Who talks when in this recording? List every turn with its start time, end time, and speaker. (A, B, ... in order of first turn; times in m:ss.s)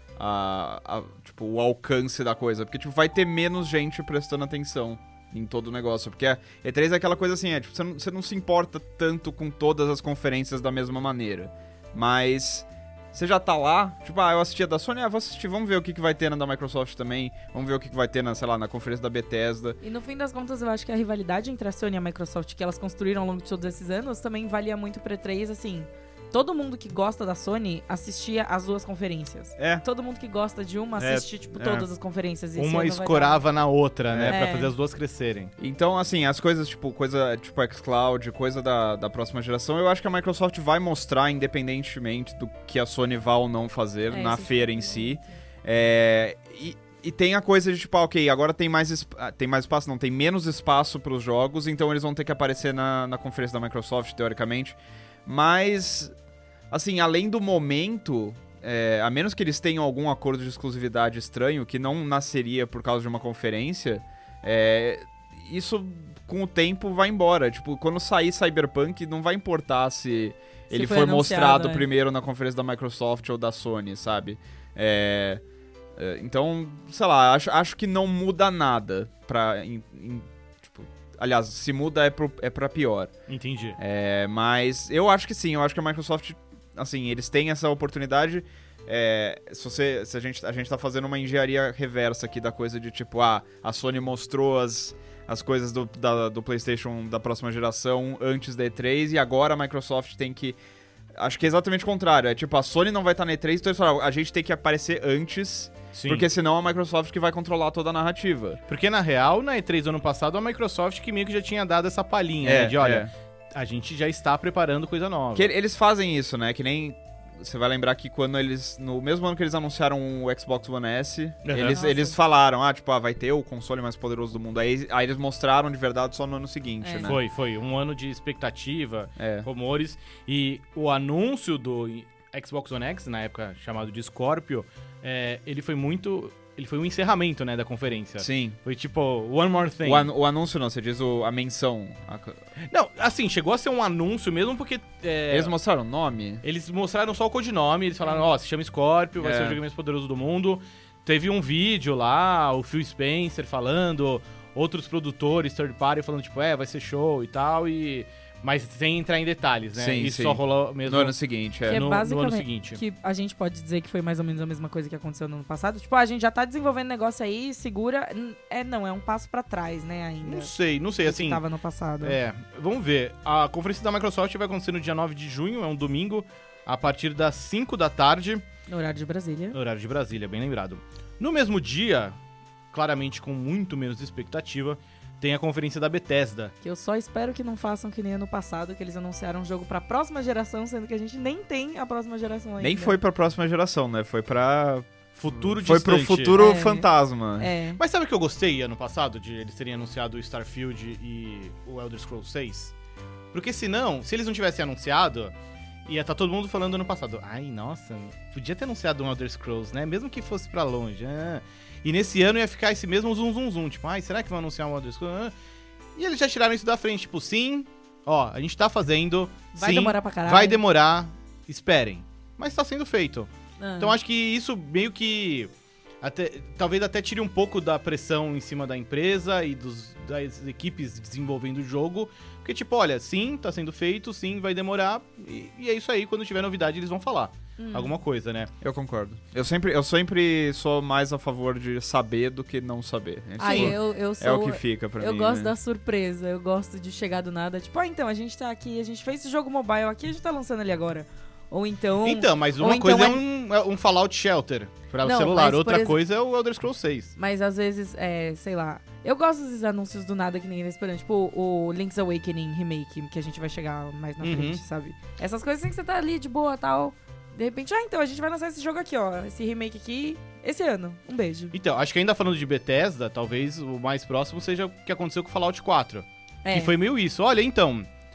0:00.2-0:19.8 A
0:19.8-0:33.4 B
0:29.6-0:29.8 A
0:31.0-0:31.9 A
0:32.6-0:35.5 C
0:34.1-0:34.4 A
0:34.3-0:34.7 B
0:35.6-0:56.1 A
0:44.1-0:45.3 B
0:56.7-1:15.4 A
1:10.7-1:11.9 B
1:16.0-1:23.1 A
1:23.3-1:23.8 C
1:23.8-1:40.6 A
1:41.1-1:48.6 A
1:45.9-1:46.3 C
1:48.7-1:55.5 C
1:52.4-1:53.1 A
1:55.4-2:07.2 A
2:01.4-2:01.8 C
2:01.6-2:02.2 B
2:06.8-2:07.2 B
2:07.0-2:20.1 C
2:09.2-2:09.5 A
2:18.2-2:18.6 A
2:19.8-2:22.4 A
2:22.7-2:25.5 C
2:25.3-2:26.4 A
2:26.4-2:41.1 C
2:29.2-2:29.6 A
2:39.8-2:41.8 A
2:41.7-2:52.2 B
2:41.7-2:42.8 C
2:50.2-2:51.4 C
2:52.0-2:58.4 C
2:58.7-2:59.6 B
2:59.5-3:02.2 C
3:02.7-3:06.5 C
3:06.6-3:13.0 B
3:12.6-3:17.5 A
3:15.2-3:16.4 C
3:16.4-3:17.8 B
3:17.8-3:22.7 C
3:23.3-3:25.3 C
3:25.9-3:35.3 C
3:36.0-3:58.5 C
3:39.5-3:40.6 B
3:43.6-3:44.0 B
3:57.6-3:58.0 B
3:58.6-4:05.5 A
4:03.4-4:13.2 B
4:03.5-4:03.8 C
4:12.0-4:17.1 C
4:15.0-4:16.0 B
4:17.2-4:31.5 B
4:24.2-4:24.6 C
4:31.5-4:37.9 C
4:36.4-4:36.8 B